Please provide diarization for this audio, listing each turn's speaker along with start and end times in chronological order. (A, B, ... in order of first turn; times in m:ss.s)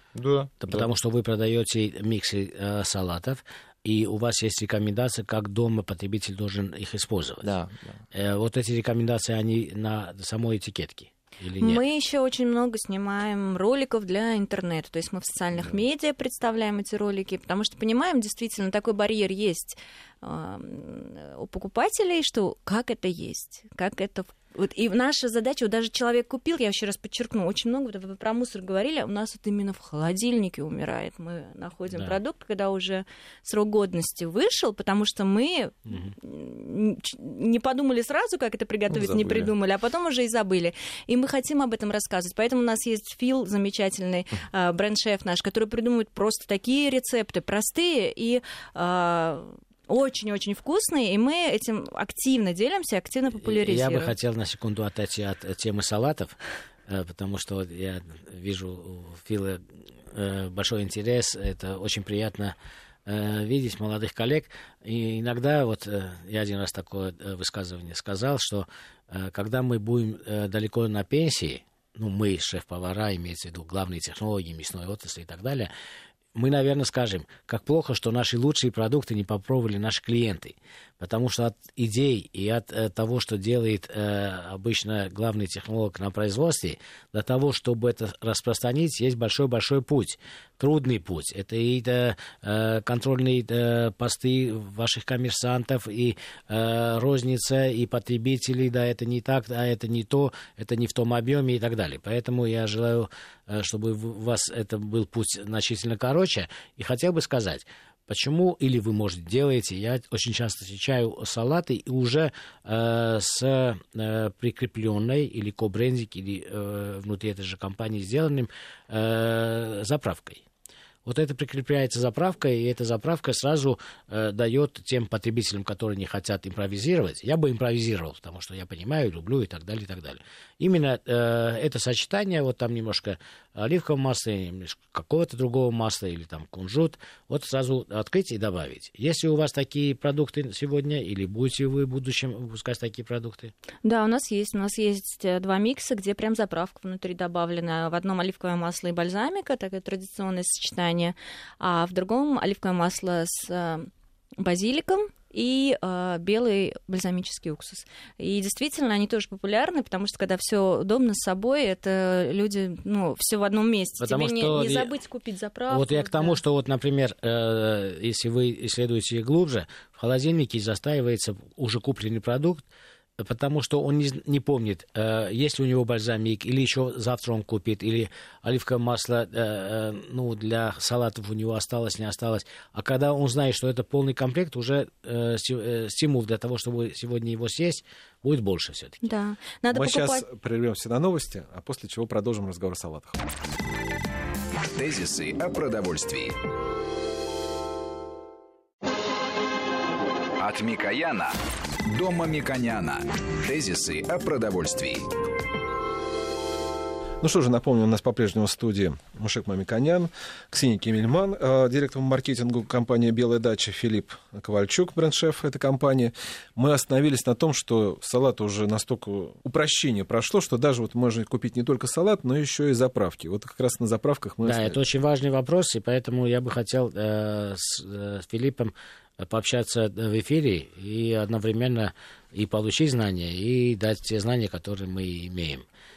0:00.1-0:00.9 A
0:00.6-0:07.5 B
0:07.4-0:08.0 A
0:08.1-0:11.8 B
0:11.6-0:54.1 C
0:35.9-0:36.1 B
0:38.9-0:39.5 A
0:53.4-0:56.4 B
0:56.9-1:02.5 B
1:03.0-1:15.7 B
1:16.3-2:00.4 B
2:01.0-2:23.5 B
2:23.8-2:46.4 C
2:44.0-2:44.9 B
2:45.7-2:52.6 B
2:53.2-3:09.0 B
3:09.0-3:10.2 C
3:09.7-3:13.2 D
3:14.7-3:16.3 E
3:20.4-3:21.3 E
3:21.8-3:25.0 E
3:27.2-3:44.8 D
3:44.4-3:55.6 B